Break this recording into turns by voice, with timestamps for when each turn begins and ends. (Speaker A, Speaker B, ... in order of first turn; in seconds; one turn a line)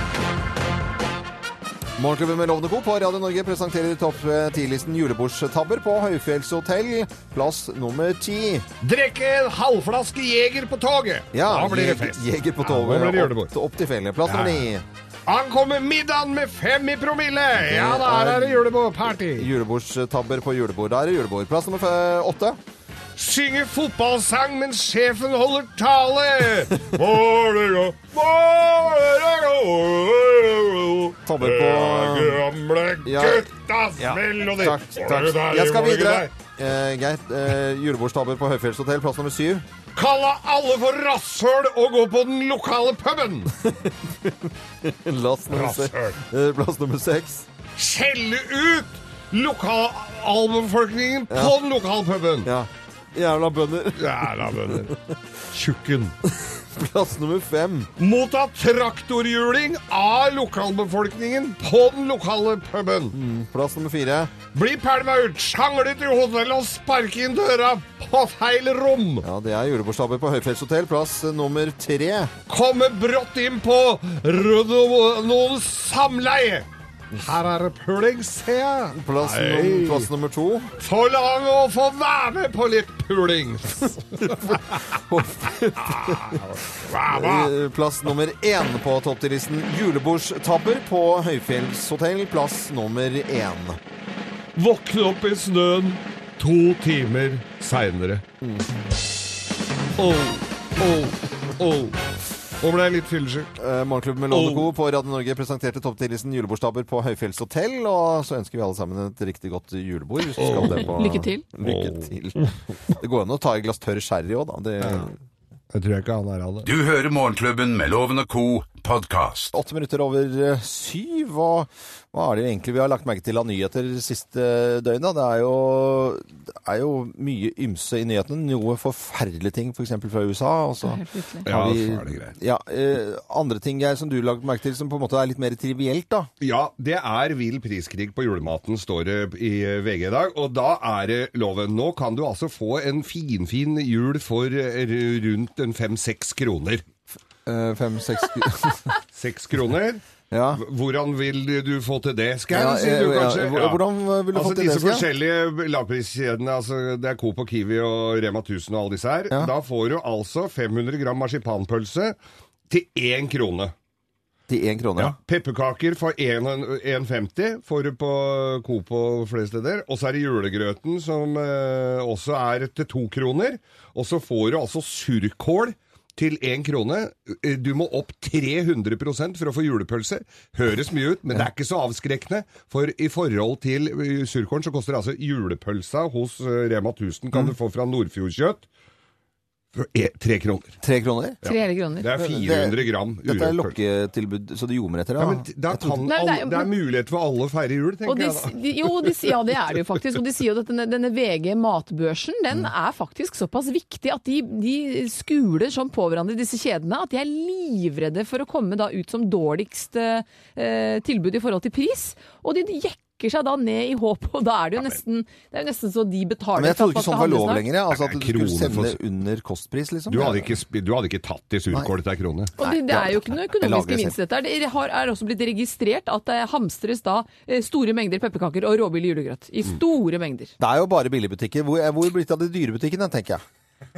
Speaker A: 2.0-8.7
Speaker B: 8.8-13.5
Speaker A: 11.3-14.8
Speaker B: 14.2-14.7
Speaker B: 15.3-19.5
Speaker A: 17.6-18.6
Speaker A: 19.3-22.6
Speaker B: 23.2-36.3
Speaker A: 31.2-32.4
Speaker A: 33.0-39.6
Speaker B: 39.9-43.5
Speaker A: 43.6-47.5
Speaker B: 45.5-46.2
Speaker B: 47.8-52.5
Speaker A: 52.4-54.9
Speaker B: 53.9-55.0
Speaker B: 55.5-56.1
Speaker A: 56.2-57.9
Speaker B: 58.0-63.1
Speaker A: 63.1-64.3
Speaker B: 64.5-69.2
Speaker A: 69.2-72.3
Speaker B: 72.5-80.1
Speaker A: 78.9-80.7
Speaker B: 80.8-85.0
Speaker A: 84.2-86.4
Speaker B: 85.8-87.5
Speaker A: 87.0-93.8
Speaker B: 94.5-98.2
Speaker B: 100.0-102.0
Speaker B: 102.6-103.5
Speaker A: 103.5-115.1
Speaker B: 104.3-104.7
Speaker B: 110.4-110.9
Speaker C: 110.9-111.4
Speaker B: 111.6-112.5
Speaker B: 114.8-115.1
Speaker B: 115.7-116.7
Speaker D: 116.6-119.5
Speaker A: 119.5-136.3
Speaker C: 130.8-131.4
Speaker B: 131.4-132.3
Speaker B: 136.4-146.8
Speaker A: 147.4-148.8
Speaker B: 149.1-150.0
Speaker A: 150.3-150.6
Speaker B: 150.5-153.8
Speaker A: 152.5-155.1
Speaker B: 154.3-162.2
Speaker B: 162.7-163.7
Speaker A: 164.5-165.2
Speaker B: 165.0-188.7
Speaker B: 189.7-190.8
Speaker A: 190.8-191.4
Speaker B: 191.4-193.8
Speaker C: 191.4-192.1
Speaker A: 192.2-196.0
Speaker B: 195.2-199.3
Speaker C: 196.1-196.7
Speaker C: 198.1-217.6
Speaker A: 216.6-220.5
Speaker B: 217.9-219.0
Speaker B: 220.1-222.5
Speaker A: 222.6-224.2
Speaker C: 222.6-230.5
Speaker A: 230.6-233.4